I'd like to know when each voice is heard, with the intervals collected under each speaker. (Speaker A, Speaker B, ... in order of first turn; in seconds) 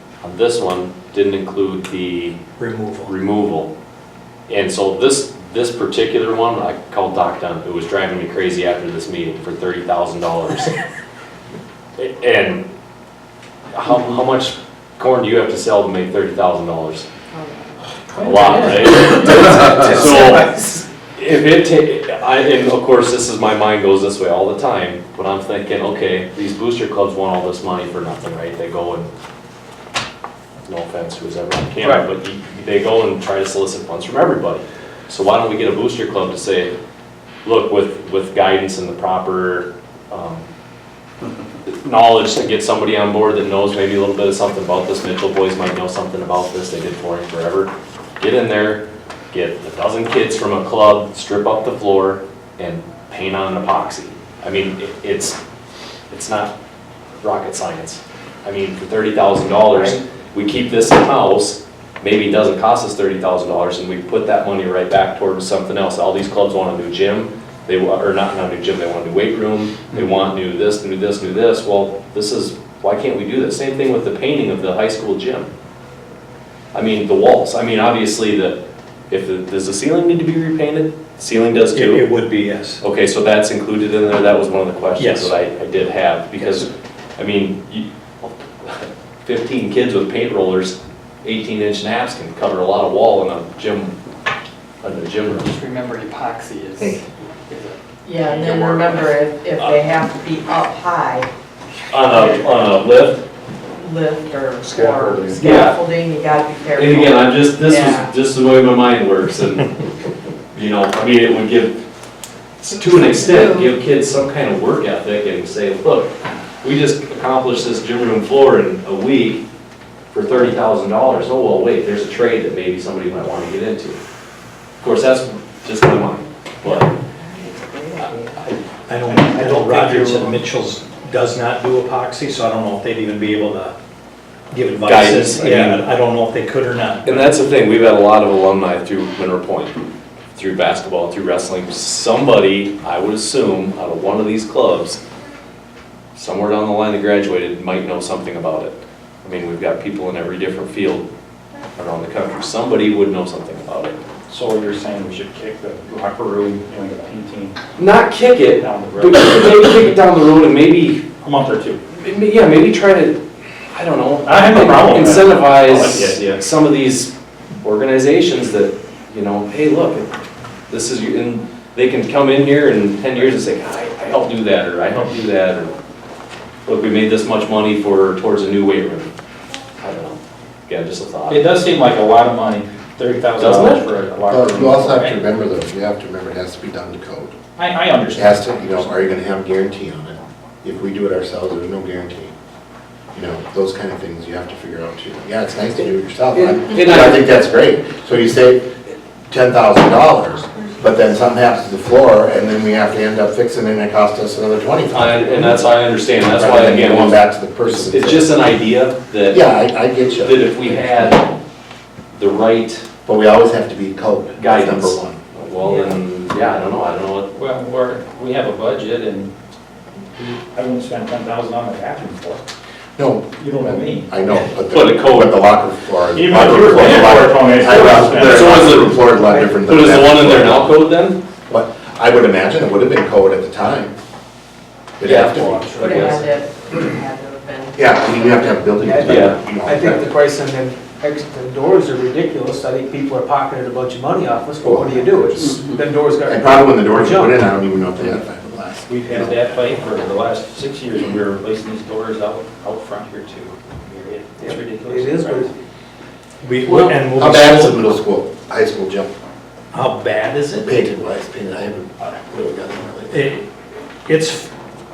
Speaker A: 0.2-2.4, 3.0-3.7, 4.5-10.7, 12.0-12.7, 13.7-17.1, 18.2-29.1, 30.7-36.7, 37.5-40.5, 41.7-55.4, 56.1-56.5, 57.2-75.5, 76.7-82.1, 82.8-94.0, 94.8-95.5, 98.2-99.8, 101.9-103.2, 105.4-105.8, 106.8-109.8, 110.5-111.8, 112.6-119.4, 120.1-124.0, 124.8-126.9, 128.0-128.6, 134.9-135.8, 137.1-139.8, 140.3-145.0, 146.2-151.1, 151.8-154.0, 157.8-161.0, 161.9-163.2, 163.7-167.1, 167.6-170.1, 170.7-175.7, 176.7-179.1, 179.8-181.5, 183.4-183.9, 196.3-197.2, 204.9-209.4, 210.2-211.3, 212.1-212.8, 214.4-217.3, 224.7-225.4, 227.7-229.1, 229.6-231.2, 235.0-236.2, 239.0-239.4
Speaker B: 2.6-3.1, 81.7-82.8, 85.0-85.3, 128.9-133.8, 134.5-137.2, 256.4-257.9, 259.7-260.8, 263.1-263.4, 264.1-264.5
Speaker C: 17.3-17.7, 98.0-101.3, 103.8-108.1, 113.1-113.7, 126.6-128.4, 235.8-238.4
Speaker D: 18.2-19.8, 129.1-130.4, 154.3-157.6, 158.6-160.0, 161.2-161.8, 164.2-166.4, 181.3-185.2, 187.6-188.4, 217.3-219.3, 220.2-222.4, 223.4-224.2, 226.1-228.8, 248.9-255.5
Speaker E: 20.1-20.3, 228.7-229.6, 235.1-236.9, 238.3-247.4, 254.4-255.5
Speaker F: 95.5-97.8
Speaker G: 104.6-105.4, 184.3-187.4, 188.1-192.3, 193.1-198.7, 199.3-205.6, 206.3-208.4, 209.3-211.3, 213.1-215.2, 223.0-230.8, 231.5-233.9, 235.0-236.1, 237.8-240.1, 244.6-245.6, 246.3-249.4, 256.7-259.1, 260.6-263.3